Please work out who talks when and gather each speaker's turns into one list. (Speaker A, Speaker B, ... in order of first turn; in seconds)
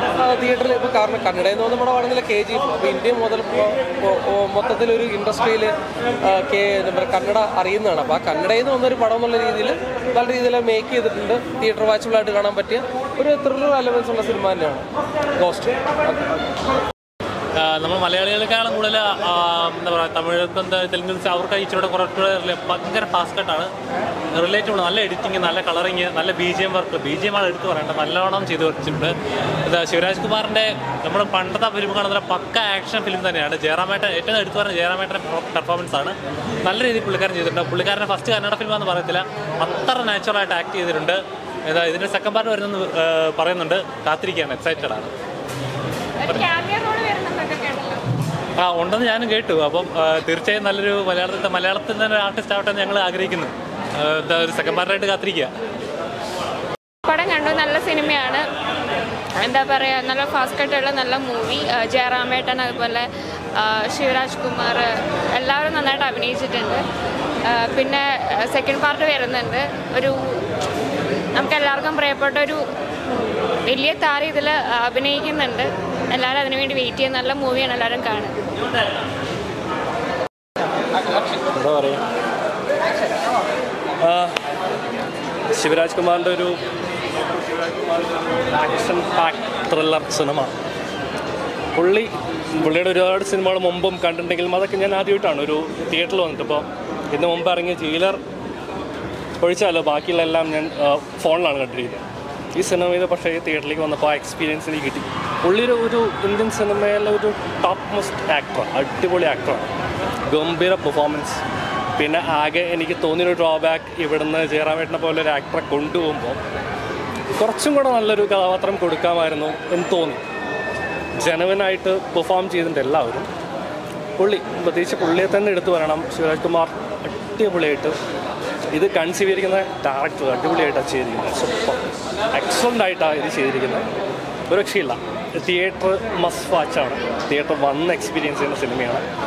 Speaker A: 0.2-5.7, 6.3-14.8, 15.4-16.2
Speaker B: 17.6-23.7, 24.3-29.1, 29.6-45.1, 48.6-55.5
Speaker C: 46.3-48.0, 57.0-58.4, 59.4-66.8, 67.4-70.2, 71.3-72.6, 73.6-78.4
Speaker D: 81.6-81.9, 84.0-84.3, 85.5-86.5, 87.4-90.5, 91.8-98.2, 99.4-102.0, 102.5-109.7, 110.3-111.4, 112.0-116.4, 117.4-120.2, 121.2-123.3, 124.2-127.9, 128.7-131.8, 132.3-133.8, 134.5-139.0